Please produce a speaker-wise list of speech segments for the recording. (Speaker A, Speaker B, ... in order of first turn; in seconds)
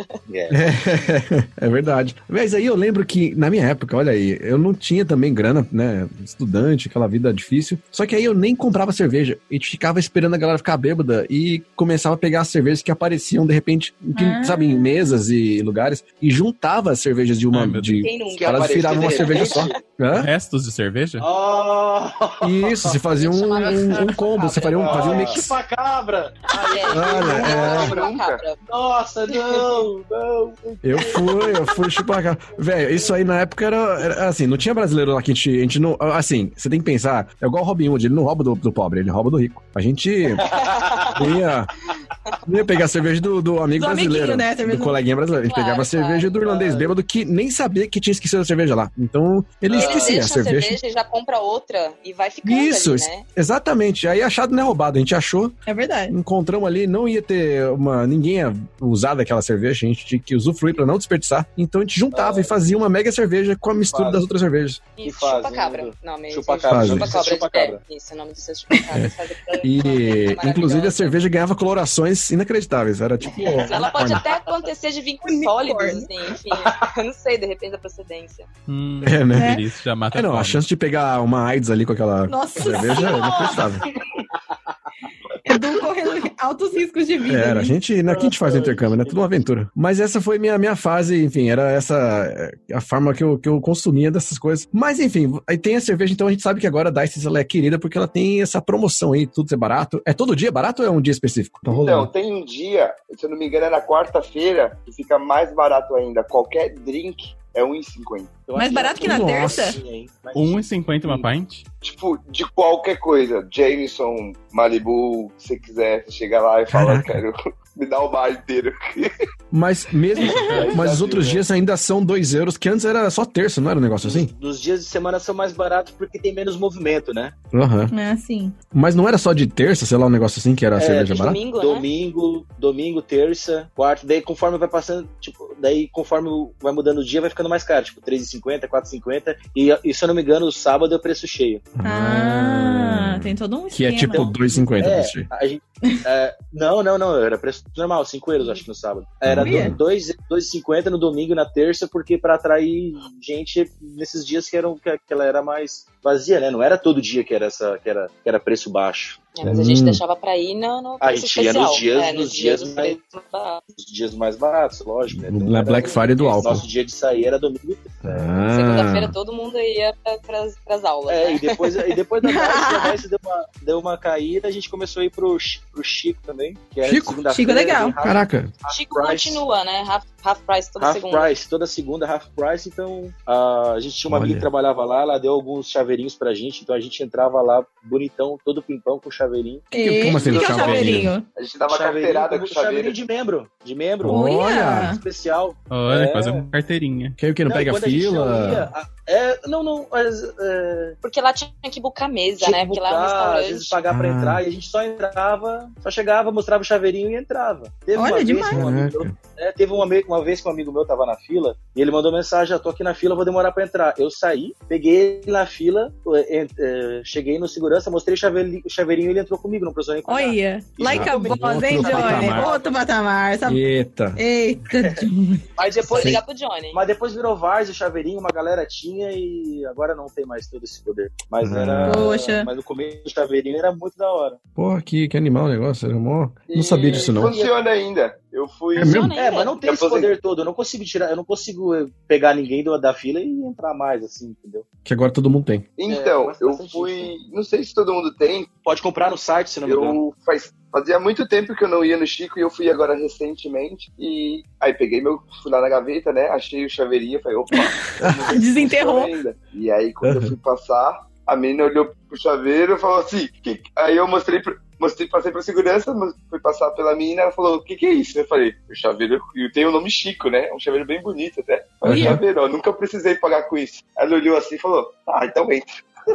Speaker A: 0.3-0.8, 18.3-19.8, 21.2-23.0, 24.7-27.9, 28.6-31.8, 40.4-41.2, 46.4-47.0, 49.7-50.2, 62.1-62.5, 63.8-64.3, 65.0-67.8, 73.4-73.8, 88.1-89.4, 108.5-111.3, 124.0-127.3, 130.8-141.7, 144.1-159.6, 161.0-163.0, 163.8-168.3, 171.1-179.4, 180.8-189.7, 190.3-190.8, 191.7-196.5, 197.5-201.0, 202.4-222.7, 224.7-225.0, 225.6-234.4, 236.9-237.6, 239.2-244.7, 245.9-247.2, 248.6-250.0
Speaker B: 0.5-20.3, 22.4-25.6, 26.9-27.9, 30.8-40.5, 41.1-41.7, 42.5-50.8, 52.5-55.6, 56.1-64.8, 66.7-67.2, 69.6-74.2, 79.0-83.8, 87.3-102.1, 109.0-109.7, 116.7-117.2, 119.5-124.3, 127.5-127.9, 128.7-131.4, 141.8-145.3, 149.2-149.8, 159.4-160.0, 165.1-166.7, 168.0-169.2, 176.8-177.2, 178.0-178.5, 184.1-184.5, 189.7-191.1, 194.0-195.0, 197.2-198.7, 203.9-204.4, 208.5-209.2, 220.9-222.5, 223.4-224.2, 225.9-226.2, 231.4-232.1, 234.6-237.4, 238.8-239.1, 244.8-245.7, 258.0-258.3, 260.0-260.4, 271.9-272.2
Speaker C: 14.1-14.7, 43.8-45.0, 55.7-56.2, 75.2-76.1, 79.3-79.6, 82.3-83.7, 85.5-87.8, 108.5-109.8, 120.2-120.5, 127.9-128.6, 141.8-144.4, 149.4-149.8, 172.2-173.0, 177.3-178.0, 189.7-191.3, 194.1-195.0, 207.9-208.6, 220.1-223.6, 224.2-225.5, 231.8-232.5, 257.5-259.1, 271.9-272.2
Speaker D: 17.5-18.1, 20.1-21.2, 78.7-80.6, 110.3-111.7, 120.4-120.7, 195.7-197.2
Speaker E: 18.0-19.8, 23.1-25.1, 26.7-28.6, 29.3-29.6, 40.5-41.2, 45.3-46.4, 49.7-53.2, 65.0-71.2, 73.7-78.5, 131.1-131.9, 159.4-163.6, 165.8-166.6, 168.5-171.8, 178.7-181.3, 201.0-203.8, 225.6-226.8, 238.8-239.6
Speaker F: 24.8-25.4, 27.3-28.4, 101.7-108.5, 111.8-119.0, 120.2-121.4, 191.3-193.0, 236.5-239.0, 239.6-240.1, 245.8-248.5, 249.7-275.7